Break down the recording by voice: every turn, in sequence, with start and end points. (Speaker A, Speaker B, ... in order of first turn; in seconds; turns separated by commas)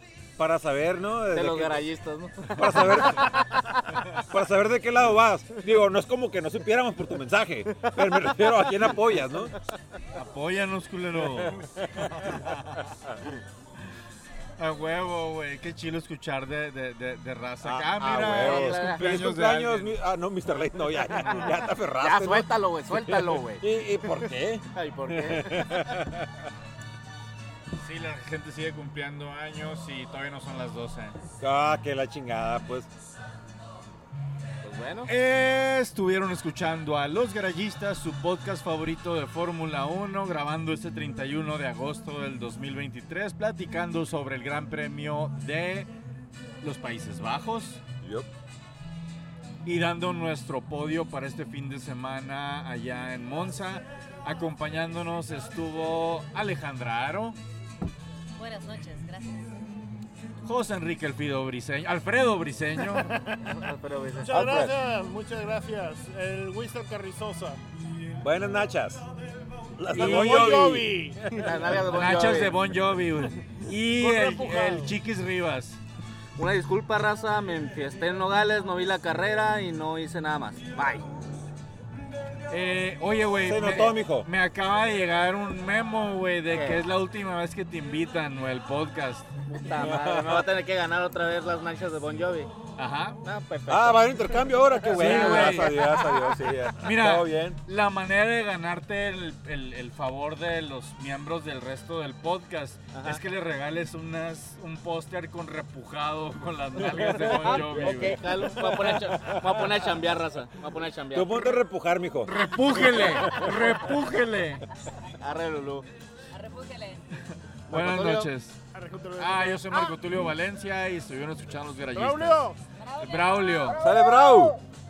Speaker A: 0.4-1.9, Speaker B: 1.3-4.1, Speaker A: 2.5-3.5, Speaker A: 4.1-9.5, Speaker B: 7.8-8.3, Speaker C: 10.1-12.8, Speaker A: 11.2-13.1, Speaker C: 14.6-19.9, Speaker A: 17.6-26.3, Speaker B: 18.3-19.0, Speaker C: 21.1-21.5, Speaker B: 22.0-24.1, Speaker B: 24.7-26.0, Speaker C: 27.8-31.2, Speaker A: 31.4-32.9, Speaker B: 34.6-35.1, Speaker C: 35.0-45.9, Speaker C: 46.6-47.8, Speaker A: 48.0-48.3, Speaker C: 49.6-57.4, Speaker D: 58.4-59.5, Speaker C: 60.4-63.2, Speaker B: 63.4-64.5, Speaker E: 64.2-67.6, Speaker A: 64.3-64.7, Speaker A: 68.2-69.0, Speaker A: 69.8-71.9, Speaker C: 69.9-70.8, Speaker E: 69.9-71.6, Speaker B: 71.3-72.6, Speaker C: 71.8-75.8, Speaker E: 74.0-74.9, Speaker B: 76.4-81.1, Speaker C: 82.5-89.3, Speaker A: 83.4-84.3, Speaker B: 86.5-86.8, Speaker B: 89.5-92.5, Speaker A: 89.7-90.5, Speaker C: 92.8-93.2, Speaker B: 93.2-96.3, Speaker A: 93.7-97.6, Speaker C: 94.8-95.8, Speaker C: 96.8-109.0, Speaker B: 102.9-103.2, Speaker B: 106.8-111.5, Speaker A: 107.0-109.8, Speaker A: 111.1-113.8, Speaker C: 112.2-114.6, Speaker B: 115.2-115.8, Speaker D: 116.3-117.0, Speaker C: 117.3-118.6, Speaker B: 117.7-118.3, Speaker E: 118.7-119.7, Speaker C: 119.2-123.8, Speaker E: 121.9-122.6, Speaker D: 122.8-123.7, Speaker A: 123.8-124.6